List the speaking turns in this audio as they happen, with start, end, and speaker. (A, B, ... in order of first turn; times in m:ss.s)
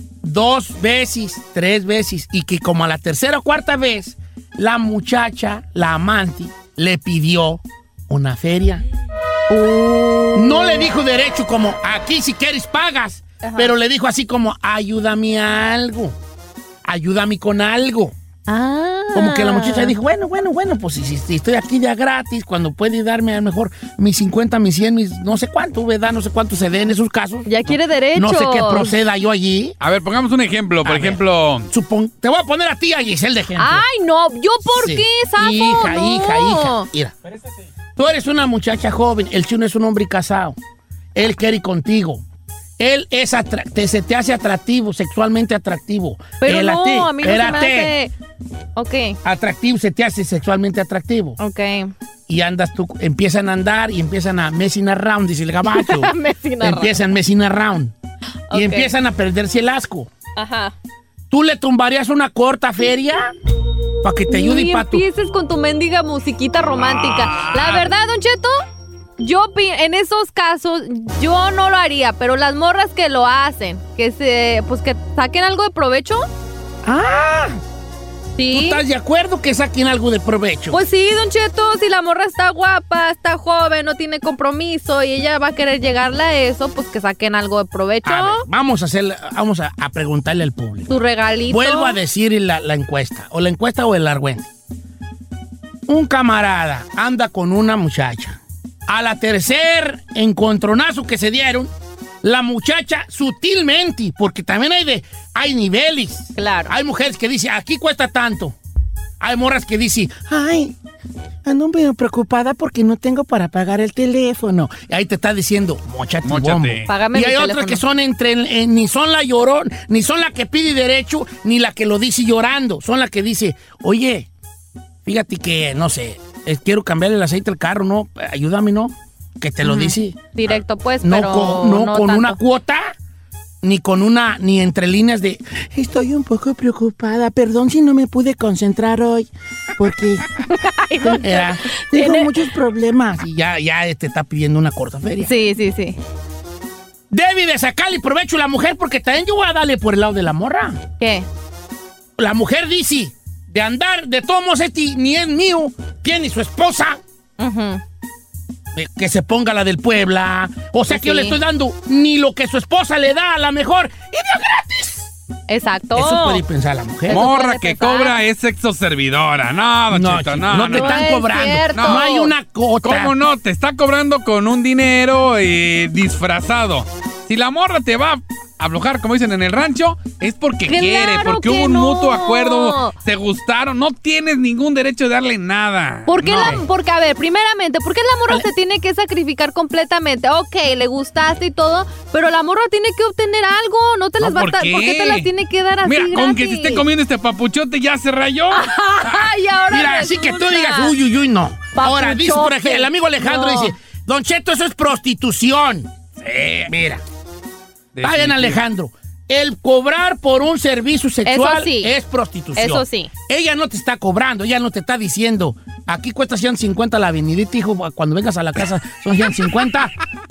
0:00.2-0:08.8 A
0:09.5-0:10.9 B
0:10.4-0:16.2 A
0:13.4-0:13.7 B
0:16.8-0:18.1 A
0:18.5-0:20.0 B
0:19.1-0:29.8 A
0:27.5-0:28.9 B
0:29.8-0:31.7 C
0:30.8-0:33.8 A
0:33.6-0:36.9 B
0:34.7-0:37.1 A
0:38.0-0:40.6 A
0:41.2-0:42.2 A
0:42.8-0:47.9 A
0:46.4-0:48.1 B
0:48.8-0:49.2 B
0:49.2-0:51.4 A
0:51.4-0:51.9 B
0:52.3-0:57.9 A
0:55.7-0:57.0 B
0:58.5-0:58.9 B
0:58.5-1:00.1 A
1:00.4-1:00.7 B
1:01.3-1:03.3 A
1:04.0-1:05.0 A
1:04.3-1:08.6 B
1:06.8-1:07.8 C
1:09.2-1:16.3 B
1:16.8-1:17.6 A
1:18.4-1:18.8 B
1:18.5-1:20.8 A
1:20.7-1:28.4 B
1:28.0-1:30.9 A
1:30.9-1:32.0 B
1:31.5-1:34.5 A
1:35.9-1:41.7 A
1:42.2-1:48.6 A
1:46.4-1:46.7 B
1:49.2-1:50.7 A
1:51.5-2:04.3 A
1:56.2-1:56.9 C
1:56.9-1:57.8 B
2:05.0-2:12.9 A
2:09.6-2:12.4 B
2:13.6-2:20.3 A
2:20.5-2:22.3 B
2:21.0-2:25.3 A
2:25.2-2:26.0 B
2:27.1-2:30.8 A
2:31.0-2:31.3 B
2:32.2-2:37.0 A
2:37.4-2:37.8 B
2:38.7-2:45.1 A
2:40.9-2:41.4 B
2:45.5-2:46.4 B
2:46.0-2:47.2 A
2:47.1-2:48.2 B
2:47.1-2:51.1 C
2:49.9-2:53.1 A
2:50.6-2:52.3 B
2:51.8-2:52.1 C
2:52.8-3:06.6 C
3:00.7-3:02.9 B
3:06.1-3:16.8 B
3:06.2-3:06.6 A
3:14.2-3:15.3 C
3:15.8-3:19.2 C
3:18.5-3:20.9 B
3:19.7-3:25.9 A
3:21.8-3:23.8 B
3:26.2-3:26.7 C
3:26.7-3:27.0 A
3:28.0-3:28.6 C
3:28.0-3:39.9 A
3:31.3-3:31.9 B
3:32.6-3:33.1 B